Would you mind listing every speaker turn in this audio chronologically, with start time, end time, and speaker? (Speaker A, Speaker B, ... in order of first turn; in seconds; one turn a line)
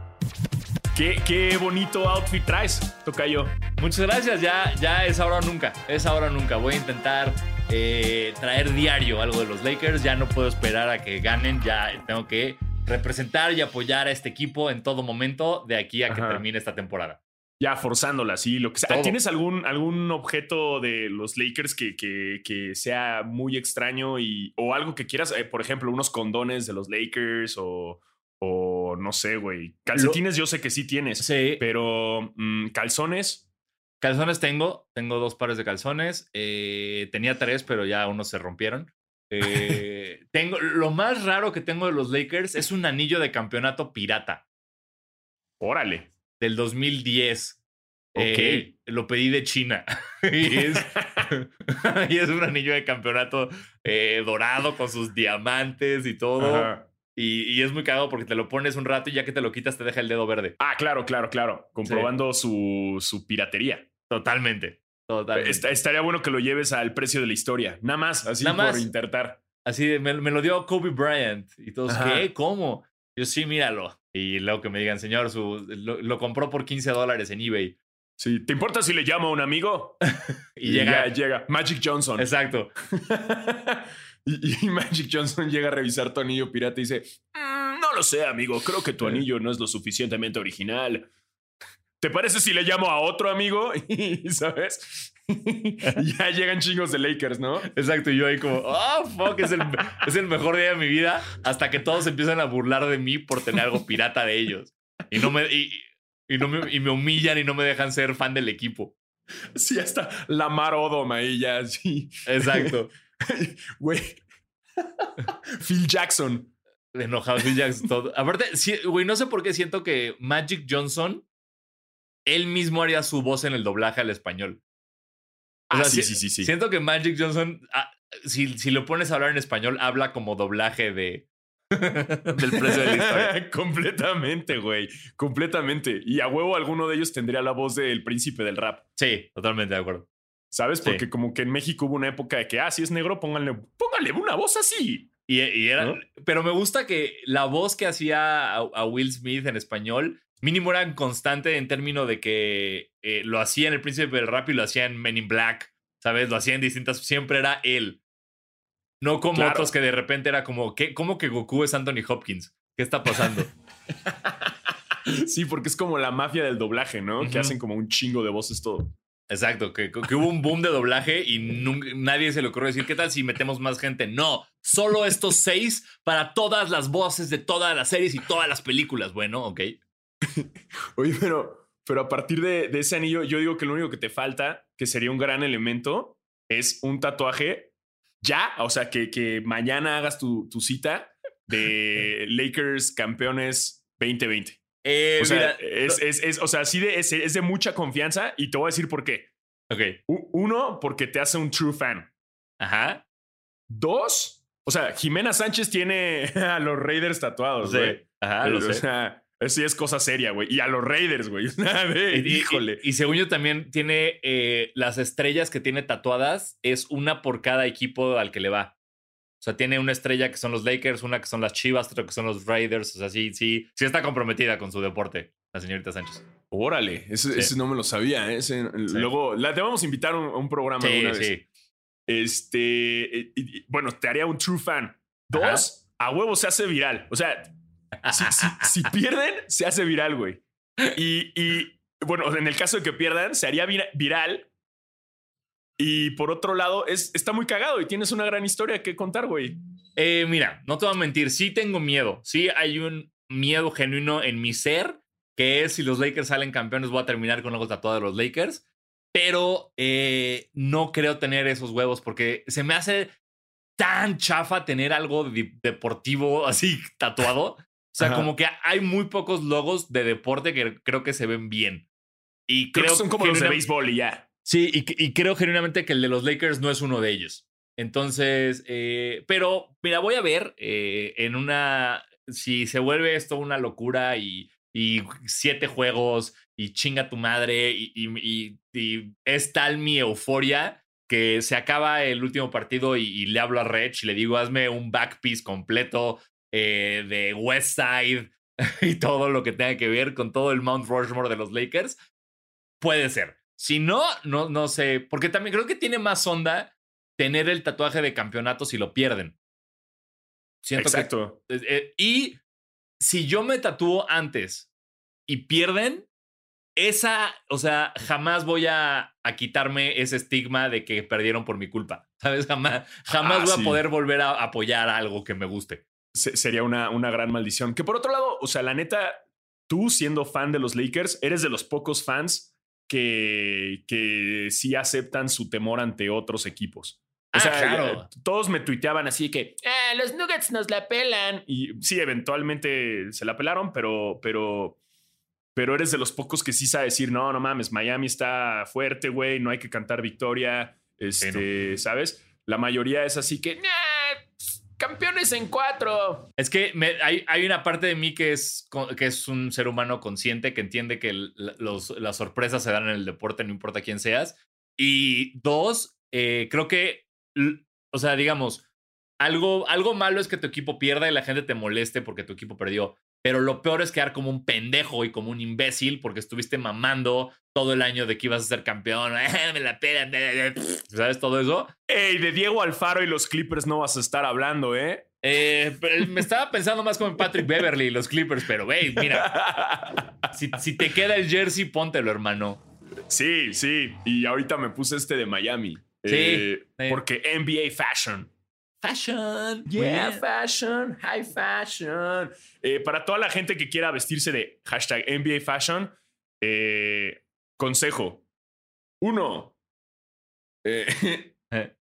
Speaker A: 0.9-3.5
Speaker B: 3.8-17.2
Speaker A: 16.1-16.4
Speaker A: 17.6-33.4
Speaker B: 18.9-19.2
Speaker B: 29.9-30.2
Speaker B: 31.2-31.6
Speaker B: 34.0-44.4
Speaker A: 45.6-46.1
Speaker B: 46.4-47.6
Speaker B: 48.1-60.5
Speaker A: 48.1-48.7
Speaker A: 50.4-51.3
Speaker A: 56.4-56.9
Speaker A: 60.6-63.9
Speaker B: 61.8-62.1
Speaker B: 64.1-65.7
Speaker A: 65.3-69.4
Speaker B: 68.4-68.9
Speaker B: 69.6-77.8
Speaker A: 71.9-72.3
Speaker A: 78.2-80.0
Speaker B: 80.2-81.1
Speaker A: 80.7-82.3
Speaker B: 82.2-82.7
Speaker A: 82.9-91.1
Speaker A: 92.0-97.7
Speaker B: 97.6-109.0
Speaker A: 109.5-114.2
Speaker B: 112.2-112.9
Speaker A: 114.8-116.5
Speaker B: 116.9-121.2
Speaker B: 122.2-124.6
Speaker A: 125.7-126.5
Speaker B: 125.7-133.3
Speaker A: 132.5-138.8
Speaker B: 139.0-140.1
Speaker A: 140.5-145.1
Speaker B: 145.3-158.0
Speaker B: 159.0-163.5
Speaker A: 159.3-159.7
Speaker A: 164.0-168.9
Speaker B: 167.2-167.5
Speaker B: 169.3-179.8
Speaker A: 180.2-194.6
Speaker B: 194.8-196.0
Speaker A: 195.2-199.3
Speaker B: 199.7-200.0
Speaker A: 200.1-202.1
Speaker B: 202.6-203.0
Speaker A: 203.7-212.8
Speaker B: 207.6-208.8
Speaker B: 212.1-218.7
Speaker B: 219.4-226.2
Speaker A: 226.5-231.3
Speaker B: 230.8-231.4
Speaker A: 232.1-237.5
Speaker B: 235.3-235.7
Speaker B: 238.0-238.8
Speaker A: 238.1-244.5
Speaker A: 245.8-249.6
Speaker B: 250.0-263.1
Speaker B: 263.8-271.9
Speaker A: 268.0-268.3
Speaker B: 272.5-273.6
Speaker A: 272.7-274.2
Speaker B: 274.4-302.0
Speaker B: 302.8-309.3
Speaker B: 310.6-312.4
Speaker A: 310.8-311.4
Speaker B: 313.0-314.7
Speaker B: 315.3-316.1
Speaker B: 316.8-325.8
Speaker A: 323.1-323.8
Speaker A: 326.1-344.8
Speaker B: 337.3-338.1
Speaker A: 345.5-356.3
Speaker B: 356.4-368.6
Speaker B: 369.2-381.7
Speaker A: 381.9-385.1
Speaker B: 385.2-389.4
Speaker A: 388.9-390.1
Speaker B: 390.3-392.6
Speaker A: 393.1-398.3
Speaker B: 396.1-397.0
Speaker B: 398.8-400.2
Speaker A: 399.7-408.2
Speaker A: 409.0-409.5
Speaker A: 410.6-411.3